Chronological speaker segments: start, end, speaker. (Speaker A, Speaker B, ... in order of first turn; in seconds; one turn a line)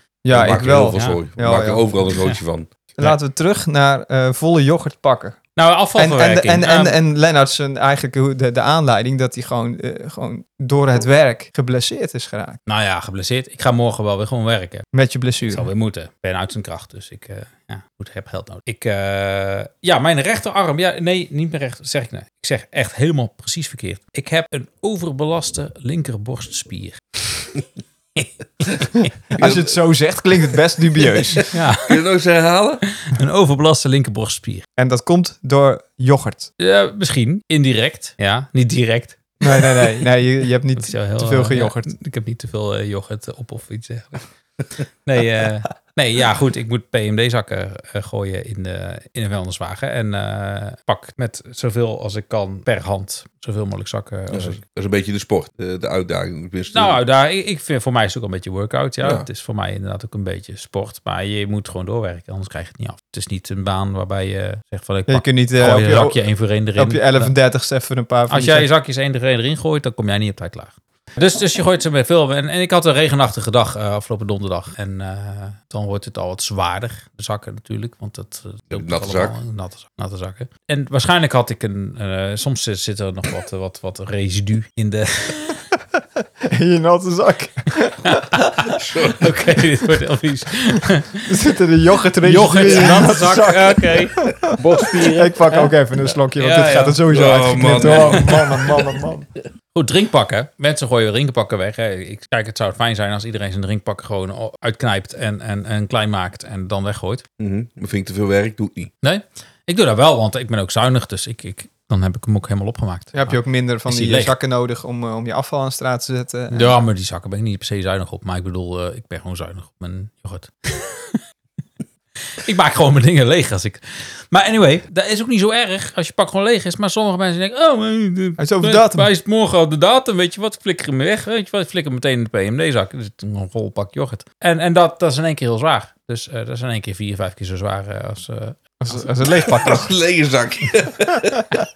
Speaker A: 0.2-2.2
Speaker B: 0.3-2.7
Speaker C: 0.9-1.2
Speaker A: 3.0-5.4
Speaker C: 5.5-6.9
Speaker A: 6.0-12.6
Speaker C: 12.7-14.9
Speaker A: 14.9-15.7
Speaker C: 15.5-27.5
Speaker C: 28.1-29.1
Speaker A: 29.3-31.4
Speaker B: 29.4-29.7
Speaker B: 31.4-32.8
Speaker C: 31.5-31.9
Speaker C: 32.9-34.6
Speaker A: 34.8-36.5
Speaker C: 36.6-40.0
Speaker A: 39.4-41.9
Speaker C: 40.8-44.3
Speaker C: 44.8-54.6
Speaker B: 54.3-57.0
Speaker C: 56.7-67.3
Speaker A: 65.1-66.2
Speaker A: 66.8-68.7
Speaker C: 68.3-85.6
Speaker B: 78.7-79.3
Speaker A: 86.4-88.2
Speaker C: 88.0-91.3
Speaker B: 88.7-89.4
Speaker A: 91.2-99.3
Speaker C: 92.2-98.7
Speaker B: 97.1-98.8
Speaker C: 99.7-107.2
Speaker B: 107.4-108.9
Speaker C: 109.0-114.3
Speaker A: 113.1-116.8
Speaker C: 116.5-121.2
Speaker C: 122.3-139.1
Speaker A: 128.4-129.1
Speaker A: 138.8-139.9
Speaker B: 139.3-141.4